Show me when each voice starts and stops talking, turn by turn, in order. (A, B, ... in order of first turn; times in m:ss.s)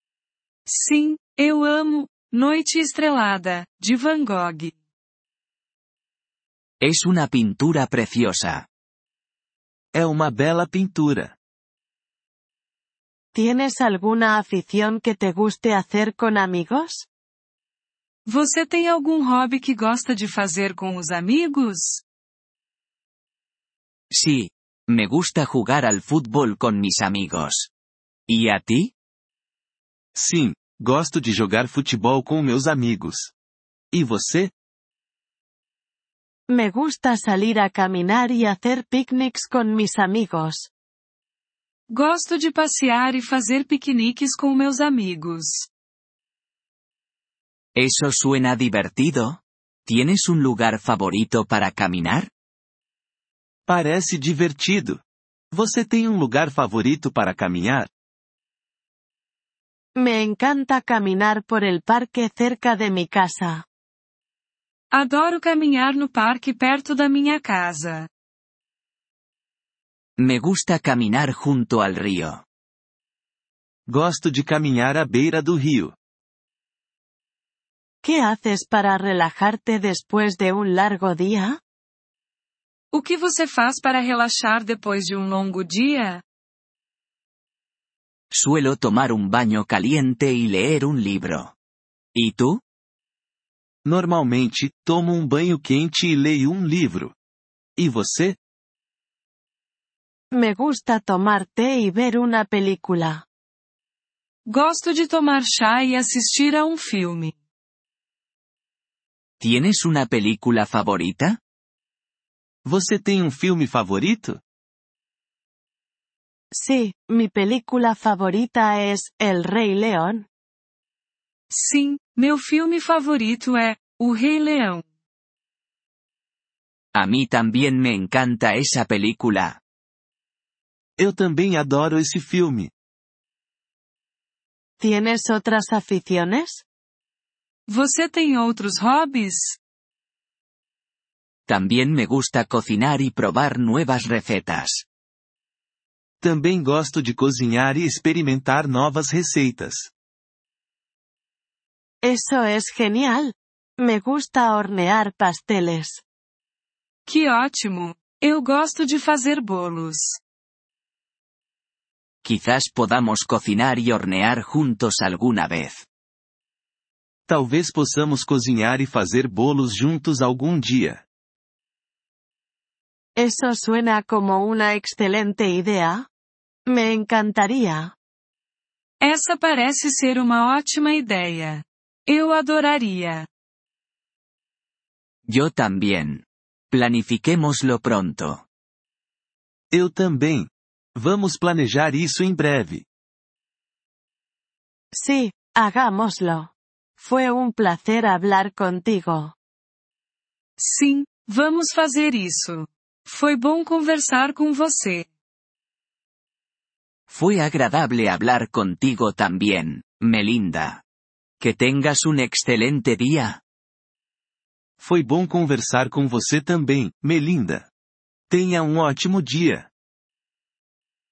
0:00.6-0:04.7 A
0:06.8-0:08.6 B
0:09.9-0:11.3 C
0:13.3-0:17.0 D
0:18.3-0:22.0 A
0:24.1-0:27.7 B
0:28.3-0:28.9 B
0:30.1-0:33.3 C
0:33.9-0:34.5 C
0:36.5-0:40.7 D
0:41.9-0:45.7 A
0:47.8-0:52.3 B
0:53.7-0:57.9 C
1:00.0-1:03.6 D
1:04.9-1:08.1 A
1:10.2-1:12.4 B
1:13.9-1:16.0 C
1:18.0-1:21.6 D
1:22.9-1:26.2 A
1:28.3-1:31.5 B
1:32.1-1:32.6 B
1:33.8-1:37.1 C
1:37.8-1:38.4 C
1:40.3-1:43.2 D
1:44.4-1:47.3 A
1:49.4-1:51.4 B
1:52.6-1:54.4 C
1:56.5-2:00.2 D
2:01.5-2:04.8 A
2:06.9-2:09.6 B
2:11.0-2:12.7 C
2:14.8-2:16.6 D
2:17.7-2:19.6 A
2:21.5-2:24.8 B
2:26.2-2:29.9 C
2:32.0-2:36.0 D
2:37.0-2:40.2 A
2:42.2-2:45.8 B
2:47.3-2:51.0 C
2:53.2-2:56.1 D
2:56.7-2:57.9 D
2:59.0-3:03.3 A
3:05.3-3:08.4 B
3:09.7-3:12.8 C
3:14.9-3:19.3 D
3:20.6-3:25.1 A
3:27.1-3:30.8 B
3:31.4-3:33.4 B
3:34.8-3:37.7 C
3:38.3-3:39.7 C